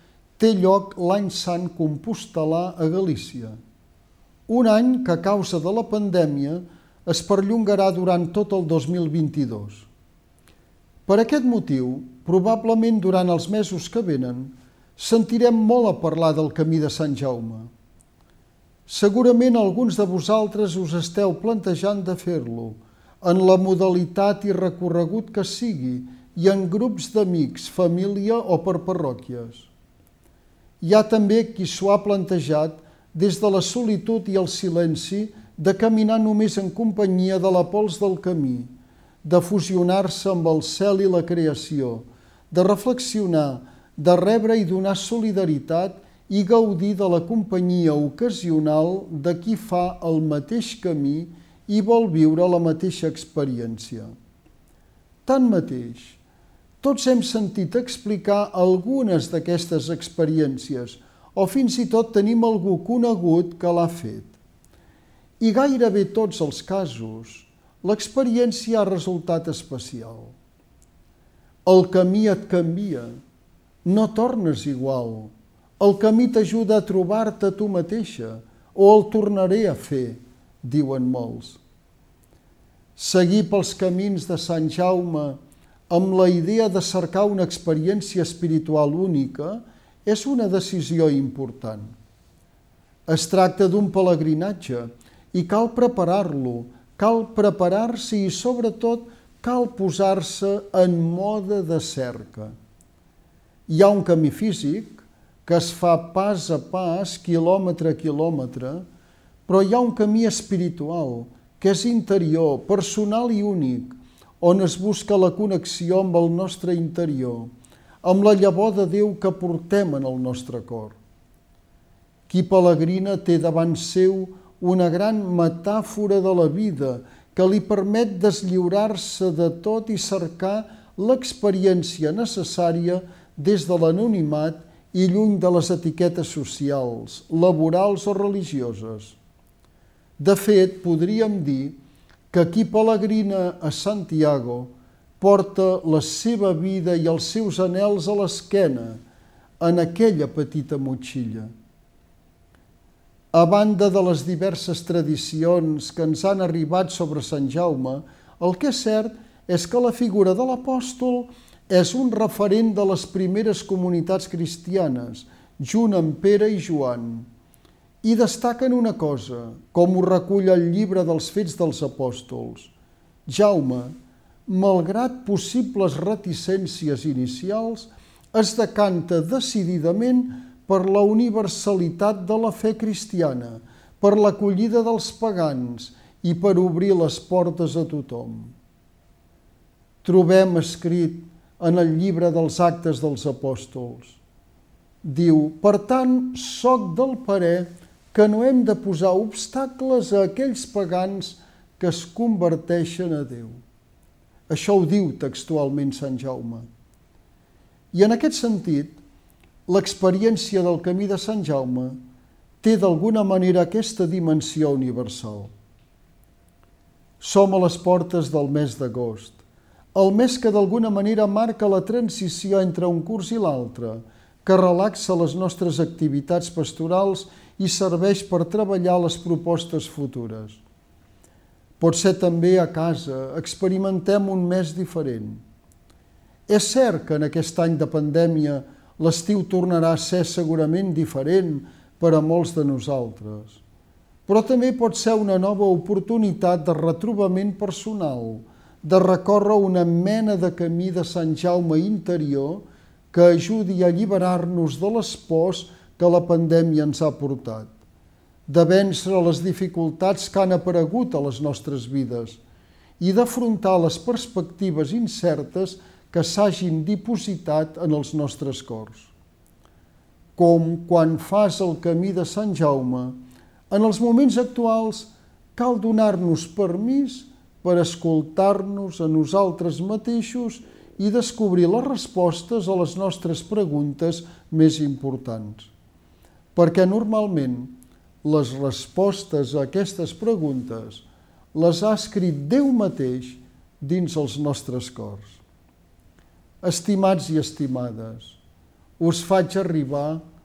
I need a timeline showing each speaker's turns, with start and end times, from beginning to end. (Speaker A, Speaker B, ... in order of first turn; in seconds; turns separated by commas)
Speaker A: 0.4-3.6, Speaker A: 4.5-9.9, Speaker A: 11.1-17.7, Speaker A: 18.9-29.7, Speaker A: 30.8-38.7, Speaker A: 39.2-54.1, Speaker A: 55.3-56.2, Speaker A: 56.8-64.4, Speaker A: 65.4-70.3, Speaker A: 71.7-73.1, Speaker A: 73.8-81.6, Speaker A: 83.0-85.4, Speaker A: 85.9-91.9, Speaker A: 93.1-102.5, Speaker A: 103.7-108.8, Speaker A: 109.5-117.5, Speaker A: 118.0-121.0, Speaker A: 122.3-139.2, Speaker A: 140.2-141.8, Speaker A: 142.3-149.0, Speaker A: 149.6-151.5, Speaker A: 153.3-167.2, Speaker A: 168.0-172.7, Speaker A: 173.3-173.9, Speaker A: 174.5-188.5, Speaker A: 190.0-194.2, Speaker A: 195.0-203.6, Speaker A: 204.5-206.7, Speaker A: 207.9-209.0, Speaker A: 209.7-212.0, Speaker A: 212.6-215.5, Speaker A: 217.2-219.4, Speaker A: 219.9-230.6, Speaker A: 231.8-235.4, Speaker A: 236.5-243.6, Speaker A: 244.3-257.7, Speaker A: 258.5-262.4, Speaker A: 263.0-269.1, Speaker A: 270.4-273.2, Speaker A: 273.7-285.7, Speaker A: 286.6-295.4, Speaker A: 296.6-298.4, Speaker A: 299.0-300.2